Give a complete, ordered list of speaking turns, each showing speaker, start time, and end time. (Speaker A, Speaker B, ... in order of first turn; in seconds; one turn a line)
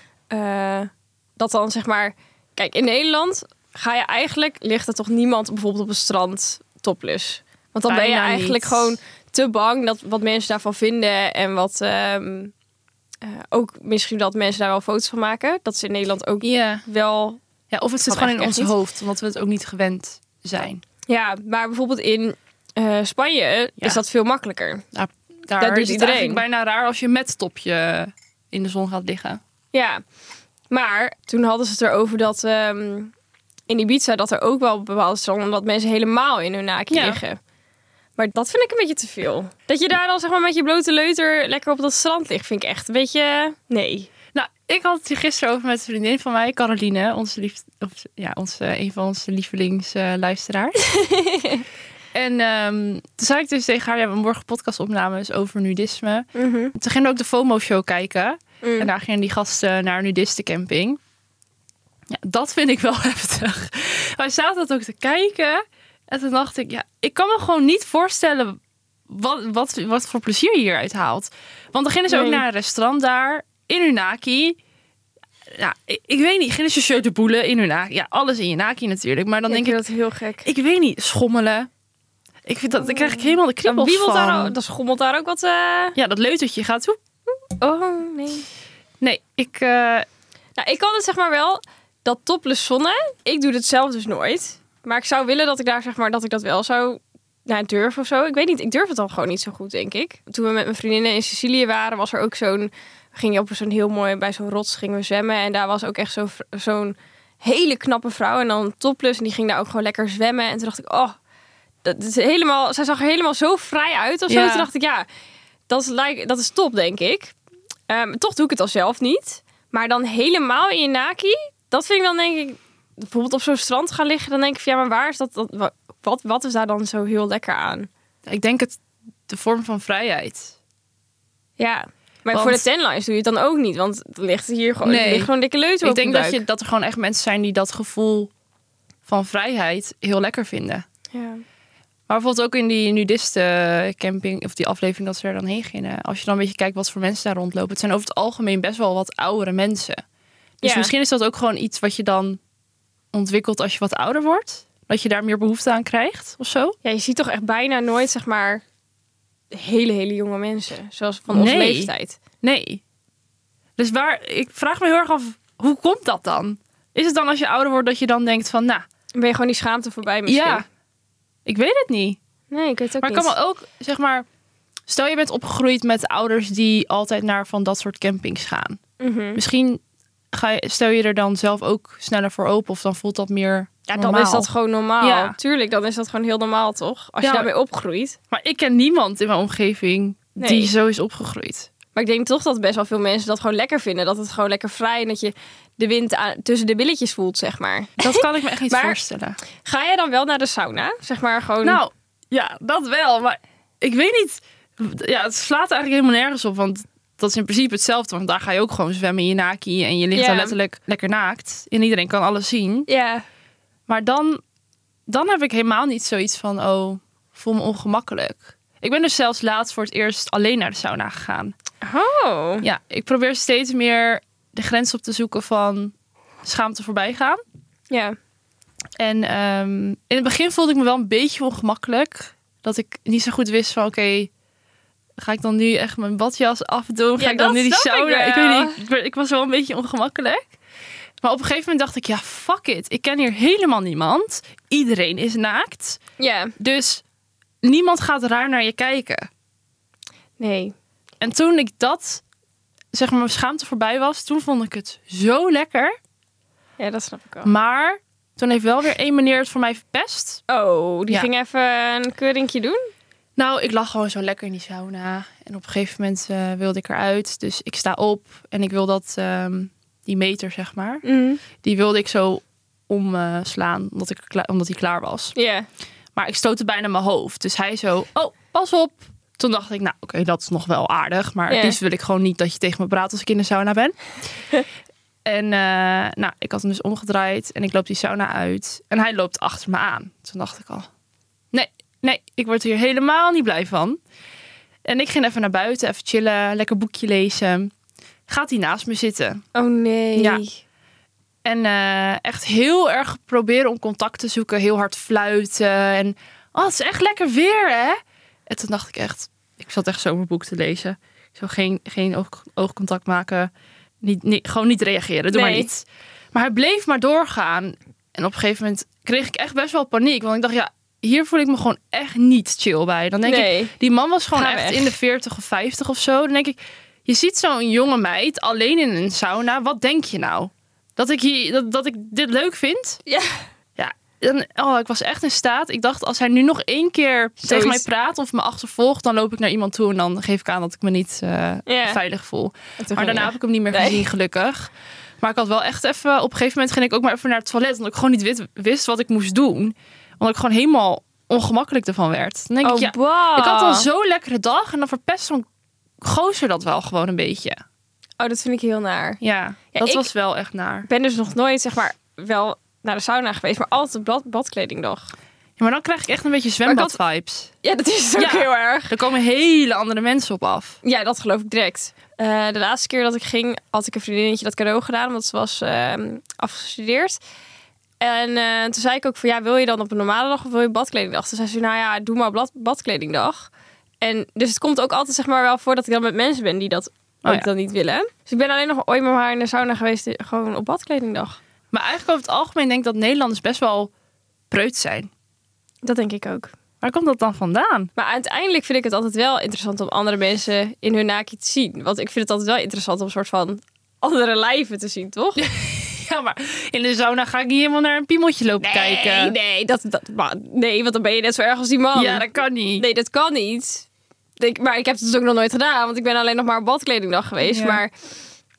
Speaker A: 0.3-12.5
Speaker B: 7.9-8.9
Speaker A: 13.2-17.4
Speaker B: 16.4-16.8
Speaker B: 17.7-20.8
Speaker A: 18.1-18.7
Speaker A: 21.1-24.8
Speaker B: 24.9-29.4
Speaker A: 25.6-26.4
Speaker A: 29.7-30.0
Speaker A: 30.7-33.1
Speaker A: 33.7-37.4
Speaker B: 36.9-37.2
Speaker A: 38.2-44.1
Speaker B: 44.3-50.8
Speaker A: 50.8-51.6
Speaker B: 52.1-61.0
Speaker A: 56.3-56.7
Speaker A: 58.6-58.9
Speaker B: 62.1-74.6
Speaker A: 72.1-72.4
Speaker B: 75.5-79.8
Speaker A: 79.5-80.5
Speaker B: 80.4-81.7
Speaker B: 82.4-84.5
Speaker A: 82.8-86.0
Speaker B: 86.0-87.0
Speaker A: 87.5-88.5
Speaker B: 89.0-90.1
Speaker A: 90.6-111.1
Speaker A: 111.8-115.0
Speaker B: 114.3-114.7
Speaker A: 115.7-117.3
Speaker A: 117.9-127.9
Speaker B: 128.2-130.5
Speaker A: 131.6-136.4
Speaker B: 132.3-132.6
Speaker B: 134.8-135.3
Speaker B: 135.8-138.3
Speaker B: 139.1-140.8
Speaker A: 141.1-141.4
Speaker B: 142.1-150.0
Speaker A: 150.6-150.9
Speaker B: 150.6-152.4
Speaker B: 153.1-156.8
Speaker A: 156.8-158.6
Speaker A: 159.5-162.2
Speaker B: 161.3-162.8
Speaker B: 163.8-168.8
Speaker A: 169.1-170.7
Speaker B: 170.2-170.6
Speaker B: 171.4-172.2
Speaker A: 172.5-173.3
Speaker B: 173.0-174.2
Speaker B: 174.9-178.8
Speaker A: 179.0-179.4
Speaker B: 179.3-179.8
Speaker B: 180.3-184.5
Speaker A: 183.9-188.2
Speaker B: 185.0-185.3
Speaker B: 187.2-187.5
Speaker B: 188.3-191.7
Speaker A: 190.4-190.7
Speaker A: 191.9-199.0
Speaker B: 198.0-199.4
Speaker A: 199.6-201.8
Speaker B: 201.6-212.9
Speaker A: 210.1-210.6
Speaker A: 212.9-213.2
Speaker B: 213.9-214.4
Speaker B: 215.1-221.5
Speaker A: 221.8-222.7
Speaker B: 222.6-227.4
Speaker A: 227.9-228.2
Speaker B: 229.0-234.3
Speaker B: 235.2-240.5
Speaker A: 237.2-238.8
Speaker B: 241.2-246.0
Speaker A: 246.2-246.5
Speaker B: 246.6-247.0
Speaker B: 247.6-249.3
Speaker A: 250.4-250.7
Speaker B: 251.2-252.2
Speaker B: 252.9-255.9
Speaker A: 256.8-257.5
Speaker B: 257.4-260.4
Speaker A: 260.5-262.9
Speaker B: 263.4-271.0
Speaker A: 271.0-271.4
Speaker B: 271.6-275.3
Speaker A: 275.3-275.7
Speaker B: 276.1-284.0
Speaker A: 281.5-281.8
Speaker B: 285.2-290.9
Speaker B: 291.5-294.0
Speaker B: 294.8-297.7
Speaker B: 298.3-299.4
Speaker A: 299.5-300.6
Speaker B: 300.1-300.4
Speaker B: 301.4-313.5
Speaker B: 314.0-333.0
Speaker A: 315.3-315.7
Speaker A: 323.2-323.7
Speaker A: 324.3-324.9
Speaker A: 333.1-333.4
Speaker B: 333.8-355.4
Speaker A: 337.4-337.8
Speaker A: 341.6-342.0
Speaker A: 342.8-344.0
Speaker A: 352.6-353.9
Speaker B: 356.0-357.6
Speaker A: 358.2-359.2
Speaker B: 359.2-360.9
Speaker A: 359.7-360.1
Speaker A: 360.9-365.1
Speaker B: 365.6-367.5
Speaker A: 366.6-367.0
Speaker A: 367.6-368.9
Speaker B: 368.2-370.8
Speaker A: 370.8-377.2
Speaker A: 378.0-383.5
Speaker A: 384.0-391.4
Speaker B: 391.7-393.9
Speaker B: 394.5-395.1
Speaker A: 395.8-396.5
Speaker B: 396.8-397.9
Speaker A: 397.9-405.4
Speaker B: 405.4-409.3
Speaker A: 408.6-413.9
Speaker B: 411.9-412.8
Speaker A: 414.4-417.9
Speaker B: 417.4-417.8